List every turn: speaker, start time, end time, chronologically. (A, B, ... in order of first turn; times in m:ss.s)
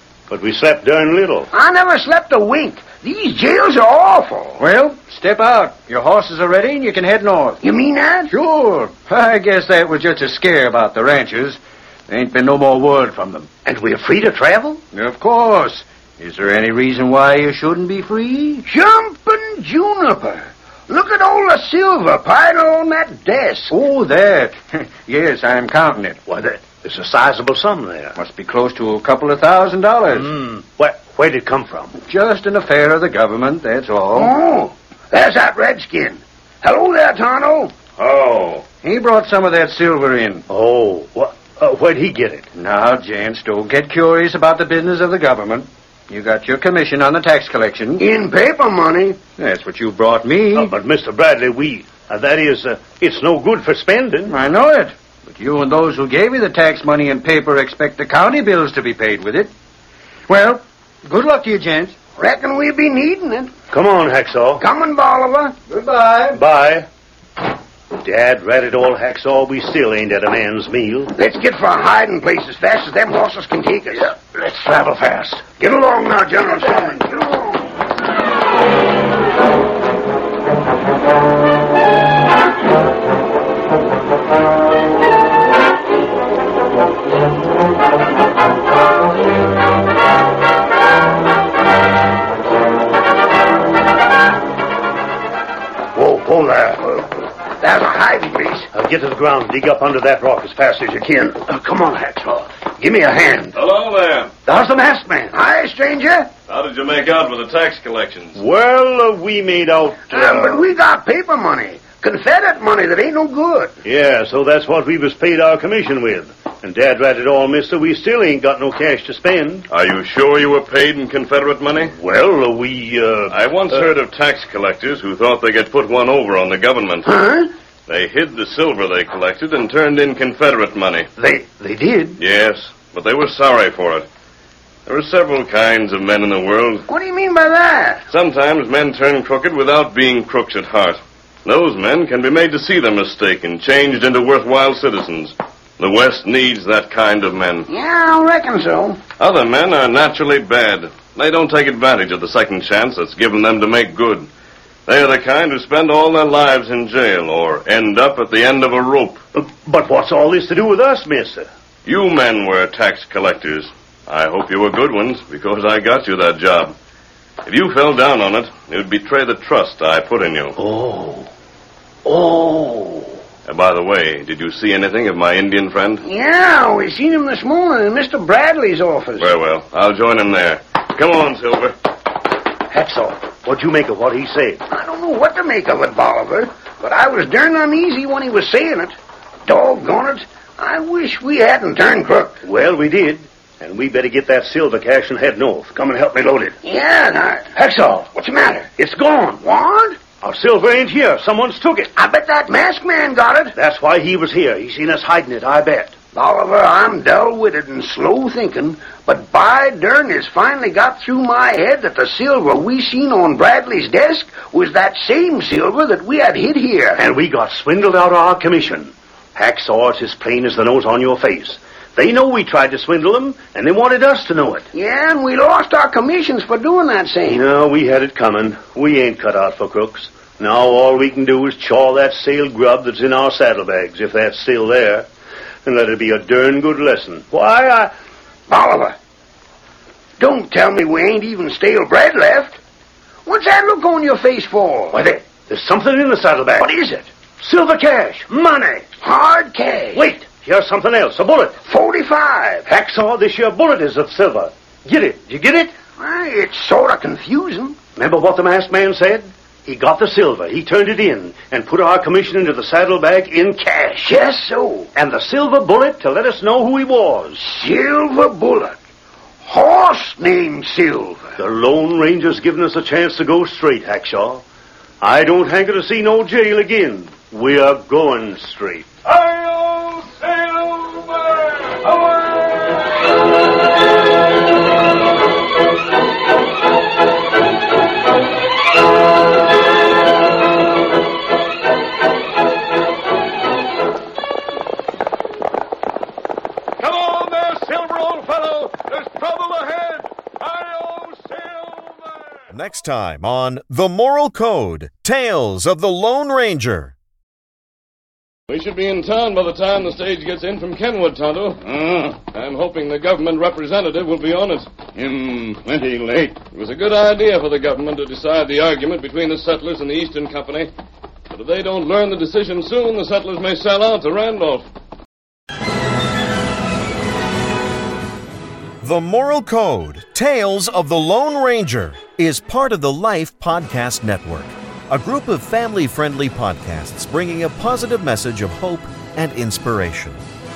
0:00.3-0:01.5 A
0:01.5-0:04.6 B
0:04.6-0:07.6 C
0:07.6-0:08.3 B
0:08.3-0:13.5 C
0:13.6-0:14.8 A
0:14.9-0:18.6 C
0:18.6-0:23.7 B
0:23.7-0:26.2 C
0:26.3-0:28.1 A
0:28.2-0:30.3 C
0:30.2-0:31.9 A
0:32.0-0:34.3 C
0:34.1-0:37.7 B
0:38.0-0:38.6 D
0:38.8-0:40.4 C
0:40.5-0:42.4 A
0:42.5-0:48.0 C
0:48.0-0:49.2 B
0:49.4-0:50.7 C
0:50.5-0:54.3 A
0:54.3-0:59.5 C
1:00.3-1:01.9 C
1:02.2-1:03.5 B
1:03.7-1:04.6 A
1:04.6-1:05.5 B
1:05.7-1:06.4 C
1:06.3-1:06.9 A
1:07.9-1:11.1 A
1:11.2-1:14.1 B
1:14.1-1:15.5 A
1:15.5-1:17.7 B
1:35.9-1:37.2 A
1:37.6-1:38.7 B
1:38.7-1:43.6 A
1:43.5-1:44.3 D
1:44.5-1:46.3 B
1:44.5-1:45.3 A
1:46.5-1:48.4 D
1:48.4-1:50.6 A
1:50.1-1:53.7 B
1:53.8-1:59.6 A
1:59.7-2:01.9 D
2:02.0-2:03.8 A
2:03.3-2:07.1 D
2:07.1-2:07.5 B
2:07.9-2:11.1 D
2:11.2-2:12.2 A
2:12.2-2:14.1 D
2:14.8-2:16.8 D
2:16.9-2:18.0 B
2:18.1-2:27.7 D
2:27.7-2:29.0 B
2:29.2-2:34.3 D
2:34.8-2:39.2 D
2:39.4-2:41.5 A
2:41.8-2:46.7 D
2:47.4-2:50.6 D
2:50.6-2:51.2 A
2:52.0-2:53.0 B
2:53.4-2:56.0 D
2:56.0-2:59.3 B
2:59.2-3:01.7 D
3:02.7-3:04.6 A
3:04.7-3:08.9 B
3:09.5-3:12.4 B
3:12.4-3:16.6 A
3:16.6-3:17.6 B
3:17.6-3:18.1 A
3:18.1-3:18.7 B
3:18.8-3:19.4 A
3:19.4-3:20.0 B
3:20.1-3:21.9 A
3:21.9-3:23.6 B
3:23.6-3:25.9 A
3:26.1-3:37.0 B
3:37.0-3:44.6 A
3:44.7-3:47.4 B
3:47.3-3:55.1 A
3:55.6-3:57.9 A
3:58.5-3:58.9 B
4:00.2-4:02.6 B
4:03.2-4:05.2 B
4:05.3-4:06.7 A
4:06.6-4:07.0 B
4:07.4-4:08.8 A
4:09.0-4:10.0 B
4:09.9-4:11.6 A
4:11.6-4:12.7 B
4:12.7-4:15.7 A
4:16.0-4:17.8 B
4:18.0-4:24.1 A
4:24.0-4:24.9 B
4:24.9-4:27.4 A
4:27.4-4:28.7 B
4:29.4-4:31.3 B
4:31.4-4:34.4 A
4:35.0-4:39.0 A
4:39.2-4:41.7 D
4:56.8-5:02.2 D
5:02.5-5:06.9 E
5:08.5-5:20.7 D
5:21.3-5:24.6 D
5:28.8-5:40.2 E